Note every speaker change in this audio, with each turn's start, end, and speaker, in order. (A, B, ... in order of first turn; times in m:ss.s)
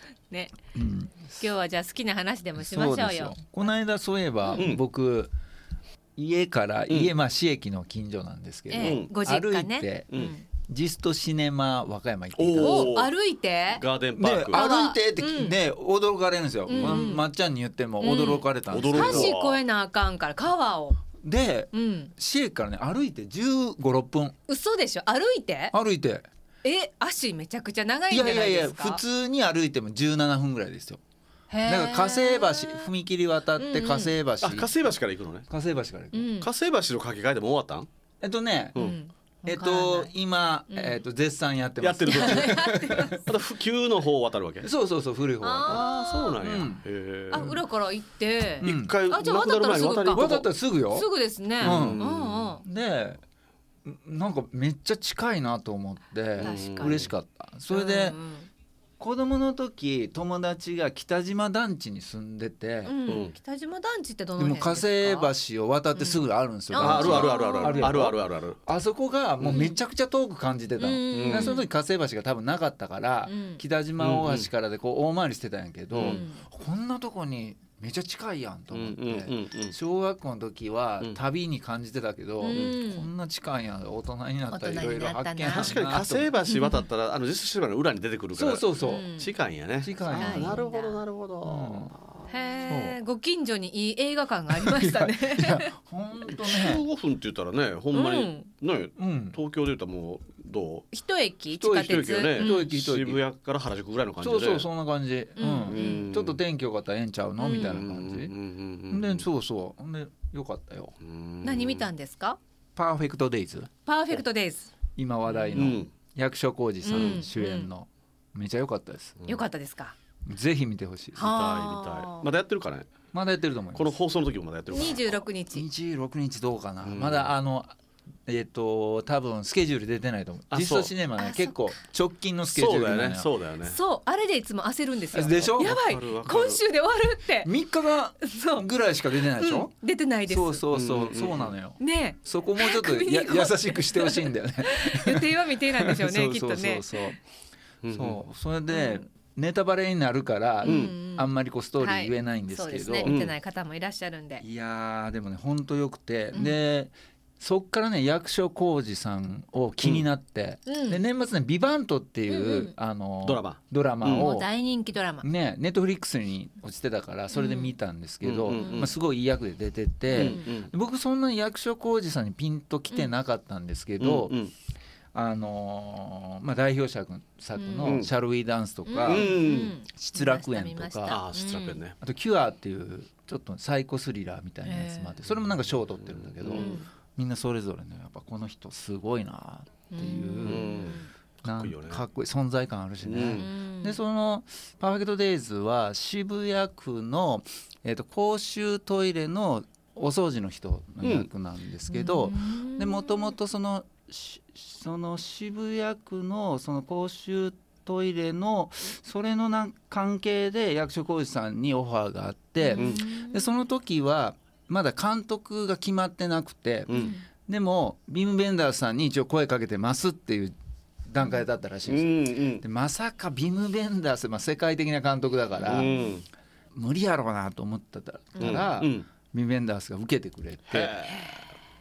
0:00.3-0:00.6 A
0:00.7-0:01.5 B
0:01.4-0:03.7 A
0:02.6-0:05.3 B
0:04.4-0:04.7 A
0:04.5-0:04.8 C
0:06.2-0:12.9 B
0:06.9-0:07.1 C
0:08.7-0:10.4 A
0:08.8-0:09.1 C
0:12.4-0:13.1 C
0:12.6-0:13.8 A
0:13.7-0:14.6 C
0:14.2-0:19.3 B
0:14.5-0:15.6 A
0:16.7-0:17.2 A
0:16.7-0:17.0 C
0:18.0-0:21.0 A
0:18.1-0:19.6 C
0:21.2-0:24.4 B
0:21.7-0:22.1 A
0:24.5-0:25.7 A
0:25.7-0:26.2 B
0:26.6-0:29.0 A
0:28.1-0:31.0 B
0:31.5-0:32.9 A
0:31.6-0:34.7 B
0:33.6-0:34.2 A
0:34.4-0:35.5 C
0:35.5-0:36.3 B
0:36.1-0:36.5 A
0:36.4-0:37.9 C
0:38.2-0:38.8 B
0:38.8-0:40.1 A
0:39.4-0:43.1 B
0:40.7-0:41.0 A
0:41.8-0:44.7 C
0:42.0-0:43.2 A
0:44.6-0:45.8 B
0:45.4-0:46.4 A
0:45.6-0:47.5 C
0:46.4-0:46.8 B
0:47.3-0:52.6 A
0:47.3-0:47.6 B
0:48.6-0:48.9 B
0:48.6-0:50.5 C
0:50.1-0:51.1 B
0:51.6-0:52.1 B
0:51.6-0:52.5 C
0:52.6-0:53.2 B
0:53.8-0:58.2 B
0:56.4-0:57.1 C
0:56.4-0:57.0 A
0:57.7-0:58.5 A
0:59.0-1:03.0 B
1:02.8-1:05.3 A
1:03.0-1:03.4 C
1:04.4-1:26.3 B
1:05.9-1:08.0 A
1:06.7-1:08.6 C
1:09.4-1:09.7 C
1:09.5-1:09.8 A
1:10.8-1:11.6 A
1:11.1-1:11.6 C
1:13.2-1:13.6 A
1:14.0-1:14.5 C
1:15.9-1:16.2 C
1:16.0-1:16.4 A
1:18.7-1:19.8 C
1:22.4-1:23.1 A
1:22.5-1:22.7 C
1:24.5-1:25.8 A
1:25.5-1:32.3 C
1:26.5-1:26.8 A
1:28.3-1:29.1 B
1:28.8-1:29.3 A
1:29.8-1:30.6 B
1:30.1-1:31.0 A
1:31.4-1:31.9 B
1:32.3-1:35.7 A
1:32.7-1:33.0 B
1:34.5-1:36.8 B
1:36.4-1:40.9 C
1:37.9-1:38.5 A
1:39.0-1:39.4 B
1:40.9-1:42.6 A
1:41.5-1:43.2 B
1:41.7-1:44.7 C
1:44.2-1:48.3 B
1:45.4-1:46.1 A
1:45.6-1:46.4 C
1:47.4-1:47.8 A
1:47.4-1:49.3 C
1:48.9-1:50.9 B
1:51.0-1:51.9 C
1:51.4-1:52.4 A
1:52.8-1:53.7 B
1:53.8-1:54.7 A
1:55.0-1:59.2 B
1:55.3-1:55.7 A
1:55.5-1:55.9 C
1:56.8-1:57.7 A
1:56.9-1:57.3 C
1:59.2-1:59.4 C
1:59.2-1:59.9 A
2:00.2-2:01.4 B
2:01.2-2:02.9 C
2:01.2-2:02.3 A
2:03.1-2:04.0 B
2:03.7-2:05.2 C
2:04.7-2:05.6 A
2:05.5-2:07.7 B
2:06.8-2:07.3 C
2:08.2-2:13.3 B
2:10.5-2:10.9 C
2:11.2-2:11.8 A
2:12.5-2:13.8 C
2:13.6-2:17.6 A
2:15.1-2:15.8 B
2:15.6-2:16.6 C
2:17.4-2:19.7 B
2:18.2-2:20.6 A
2:20.3-2:27.2 B
2:20.7-2:21.5 C
2:21.8-2:26.9 A
2:27.8-2:28.2 C
2:27.9-2:33.1 B
2:28.7-2:29.0 A
2:30.6-2:34.4 A
2:30.6-2:30.9 C
2:33.0-2:33.3 C
2:34.4-2:44.5 B
2:36.3-2:36.6 A
2:39.8-2:40.0 C
2:40.6-2:41.0 A
2:42.3-2:42.7 A
2:43.2-2:44.3 C
2:44.1-2:45.2 A
2:45.2-2:54.3 B
2:47.3-2:47.8 A
2:48.2-2:48.9 C
2:48.5-2:49.0 A
2:50.1-2:50.7 C
2:50.1-2:50.4 A
2:54.0-2:54.5 C
2:55.1-2:59.4 B
2:57.6-2:58.0 A
2:57.8-2:58.1 C
2:58.8-3:01.8 A
2:59.0-2:59.8 C
2:59.9-3:01.2 B
3:01.1-3:02.0 C
3:02.0-3:40.5 B
3:04.6-3:05.2 A
3:05.3-3:06.7 C
3:06.5-3:06.9 A
3:09.9-3:11.1 A
3:10.4-3:12.0 C
3:13.0-3:13.5 C
3:13.3-3:14.0 A
3:21.0-3:21.3 C
3:21.9-3:23.3 A
3:32.6-3:33.5 A
3:32.8-3:33.0 C
3:36.9-3:37.1 C
3:36.9-3:37.2 A
3:41.1-3:45.9 B
3:41.2-3:41.4 A
3:41.8-3:42.6 C
3:45.6-3:46.2 C
3:45.7-3:46.1 A
3:46.7-3:50.9 B
3:48.3-3:48.7 A
3:48.4-3:49.1 C
3:50.6-3:51.5 C
3:51.1-3:51.4 A